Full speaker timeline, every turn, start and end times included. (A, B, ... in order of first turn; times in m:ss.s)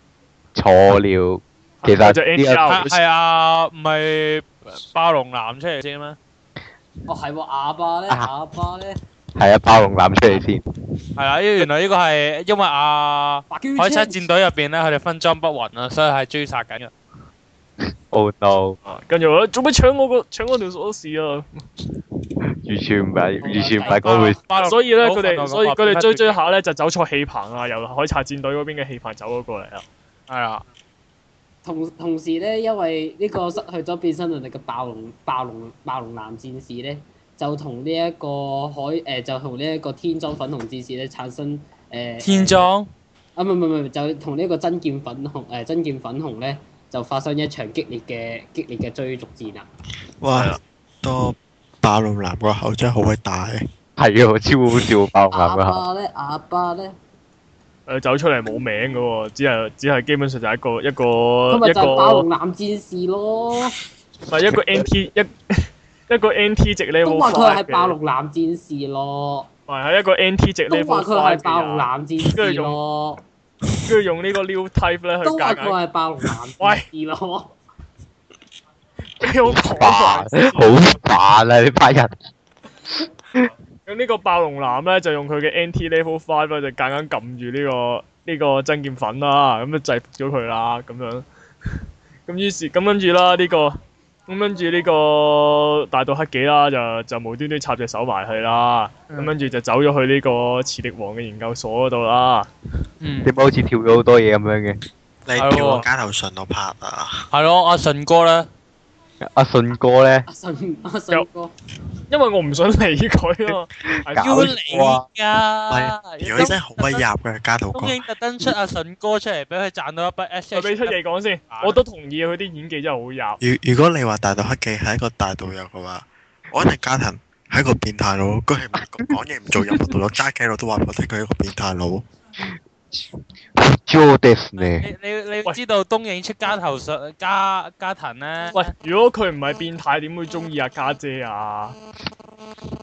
0:00.5-0:02.8 A
0:01.8-0:03.0 B
0:02.6-0:06.2 C
0:07.1-0:09.0 D
0:09.4-0:10.6 A
0:11.2-0:16.9 C
0:13.5-0:14.3 D
0:18.1-0:18.8 A
0:18.8-0:21.6 B
0:22.6-0:24.4 A
0:23.4-0:24.4 D
0:23.9-0:26.4 C
0:24.6-0:29.8 B
0:30.3-0:30.6 C
0:31.6-0:42.7 D
0:42.2-0:42.9 C
0:43.4-0:49.7 D
0:50.2-0:53.6 E
0:50.3-0:50.6 B
0:54.0-0:55.8 A
0:55.3-0:57.0 D
0:57.9-1:02.3 B
1:01.5-1:03.8 D
1:04.3-1:08.0 B
1:07.0-1:09.5 D
1:09.7-1:12.8 B
1:10.7-1:13.2 D
1:13.8-1:15.8 B
1:15.2-1:17.5 D
1:16.6-1:16.8 B
1:19.2-1:21.0 B
1:19.4-1:22.1 A
1:23.8-1:31.2 B
1:32.3-1:42.5 B
1:43.0-1:43.3 C
1:43.2-1:44.8 A
1:45.2-1:47.3 E
1:45.4-1:45.8 C
1:47.3-1:48.5 C
1:49.3-1:50.3 A
1:50.3-1:51.5 D
1:52.1-1:54.5 B
1:54.1-1:55.0 A
1:54.2-1:57.0 C
1:55.7-1:58.0 E
1:57.7-2:01.0 C
2:00.5-2:03.4 B
2:01.5-2:01.8 C
2:03.4-2:12.0 E
2:13.6-2:14.9 A
2:14.6-2:18.7 C
2:18.5-2:21.8 B